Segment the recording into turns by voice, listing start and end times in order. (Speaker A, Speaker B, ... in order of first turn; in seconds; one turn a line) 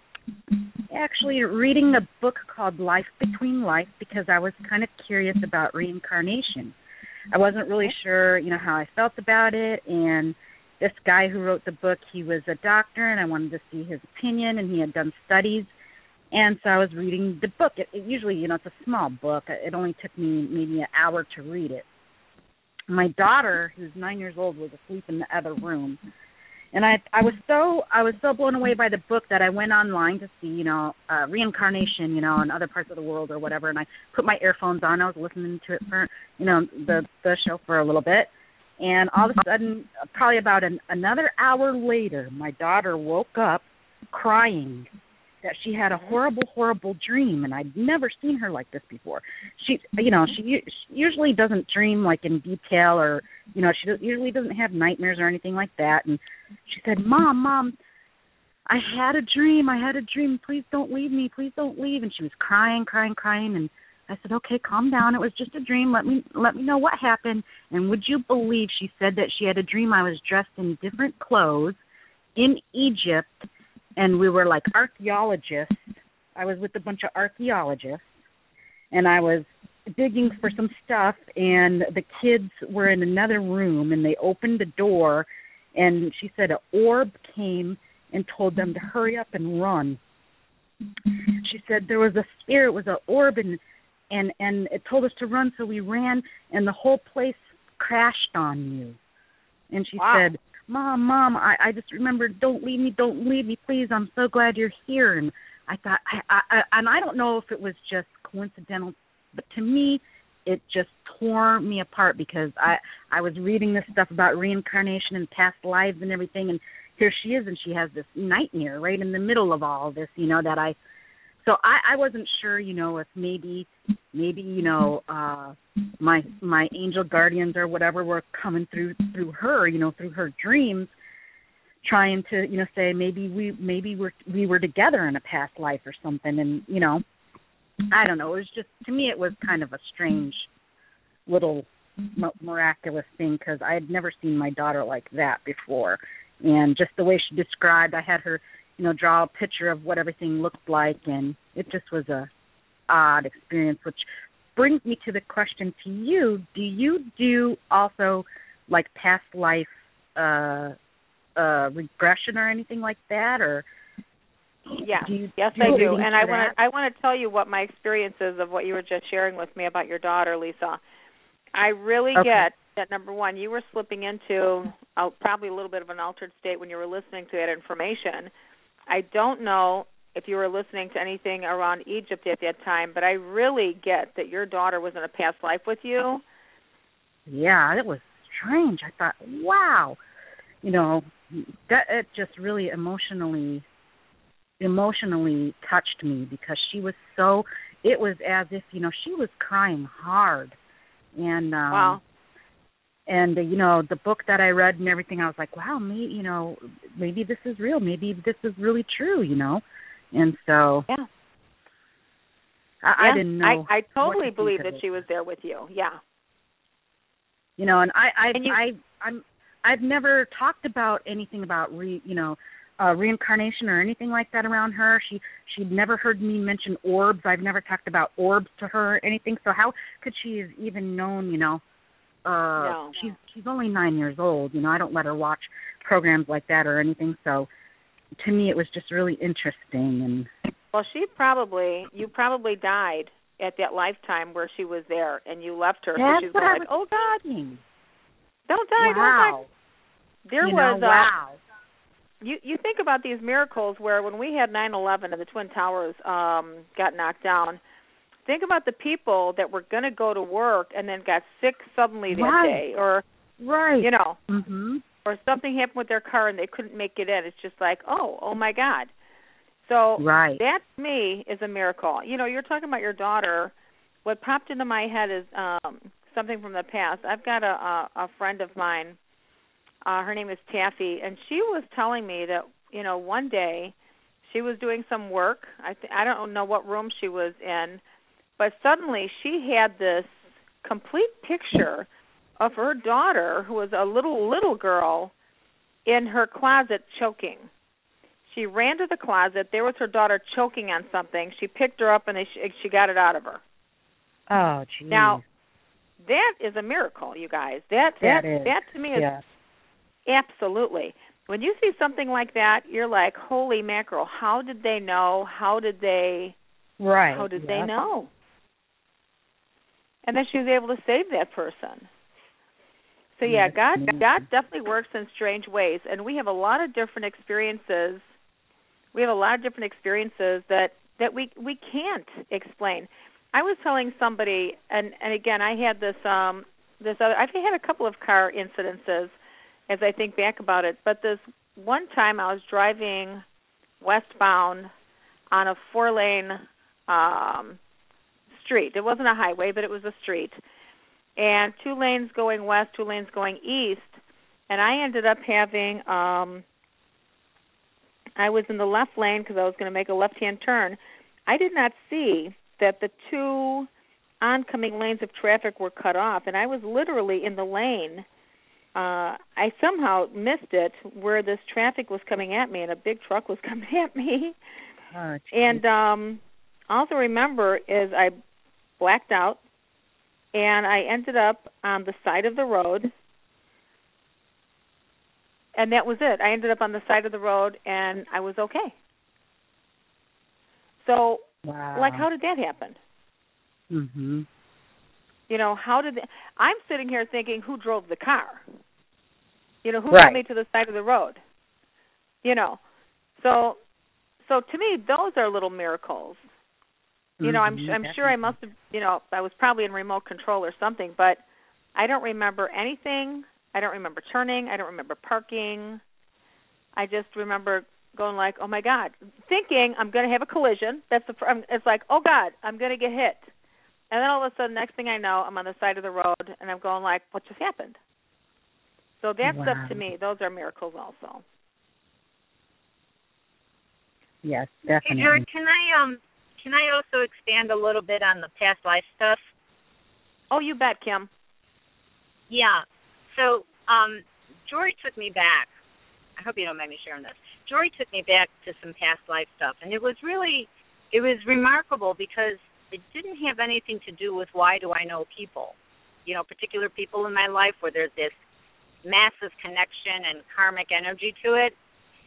Speaker A: 0.9-6.8
Speaker A: 7.3-15.7
Speaker A: 16.3-21.9
Speaker A: 22.9-26.0
Speaker A: 26.7-44.9
Speaker A: 45.4-57.8
Speaker A: 58.7-71.8
Speaker A: 72.4-78.1
Speaker A: 78.9-90.0
Speaker A: 91.4-93.6
Speaker A: 94.1-99.0
Speaker A: 99.7-120.8
Speaker B: 100.0-100.3
Speaker A: 121.4-130.9
Speaker A: 131.8-137.0
Speaker A: 137.9-140.5
Speaker A: 141.3-152.3
Speaker A: 152.9-160.8
Speaker A: 161.4-163.7
Speaker A: 164.8-166.5
Speaker B: 164.8-170.8
Speaker B: 171.6-178.3
Speaker A: 172.2-172.5
Speaker B: 178.9-186.2
Speaker A: 187.3-190.0
Speaker A: 190.6-193.7
Speaker A: 194.6-200.6
Speaker A: 201.2-202.0
Speaker B: 201.7-202.0
Speaker A: 203.1-210.9
Speaker A: 212.8-215.0
Speaker B: 213.0-216.0
Speaker A: 217.6-231.6
Speaker B: 218.3-218.6
Speaker A: 232.2-237.5
Speaker B: 232.6-232.9
Speaker A: 238.2-240.3
Speaker B: 240.7-246.7
Speaker A: 246.0-247.6
Speaker B: 248.5-249.4
Speaker A: 248.8-249.5
Speaker B: 250.3-251.1
Speaker A: 250.4-251.4
Speaker B: 252.2-257.6
Speaker B: 258.3-263.0
Speaker A: 262.1-262.6
Speaker A: 263.4-264.8
Speaker B: 263.8-264.2
Speaker B: 265.1-268.9
Speaker B: 269.6-273.5
Speaker A: 270.0-270.4
Speaker B: 274.1-279.0
Speaker B: 279.9-283.7
Speaker B: 284.2-287.8
Speaker B: 288.4-291.9
Speaker B: 292.4-295.1
Speaker B: 295.9-297.5
Speaker B: 298.3-303.4
Speaker A: 304.3-305.2
Speaker B: 304.9-305.2
Speaker B: 306.0-309.1
Speaker A: 308.0-309.2
Speaker B: 310.1-316.4
Speaker A: 316.8-317.7
Speaker B: 317.1-318.1
Speaker B: 320.1-321.9
Speaker B: 323.2-328.1
Speaker A: 323.2-324.2
Speaker B: 328.9-339.1
Speaker B: 339.7-343.2
Speaker B: 343.8-344.7
Speaker B: 345.3-347.6
Speaker B: 348.3-350.4
Speaker B: 351.2-354.0
Speaker B: 354.5-356.4
Speaker B: 358.2-363.7
Speaker B: 364.2-368.1
Speaker B: 368.8-374.4
Speaker A: 374.9-375.6
Speaker B: 375.3-378.2
Speaker B: 378.8-379.4
Speaker B: 380.3-382.9
Speaker B: 385.6-388.7
Speaker B: 390.8-392.8
Speaker A: 391.4-392.1
Speaker A: 393.7-394.3
Speaker B: 395.3-398.5
Speaker B: 399.6-401.2
Speaker A: 399.9-400.2
Speaker B: 402.2-402.6
Speaker B: 403.2-403.6
Speaker B: 404.2-406.2
Speaker A: 407.2-408.3
Speaker B: 407.2-411.2
Speaker B: 411.8-415.8
Speaker B: 416.8-423.3
Speaker B: 423.9-427.8
Speaker B: 429.0-431.2
Speaker A: 429.2-429.8
Speaker A: 434.2-435.2
Speaker C: 434.8-439.3
Speaker B: 440.3-441.1
Speaker C: 442.3-445.5
Speaker C: 446.2-458.2
Speaker C: 458.9-461.6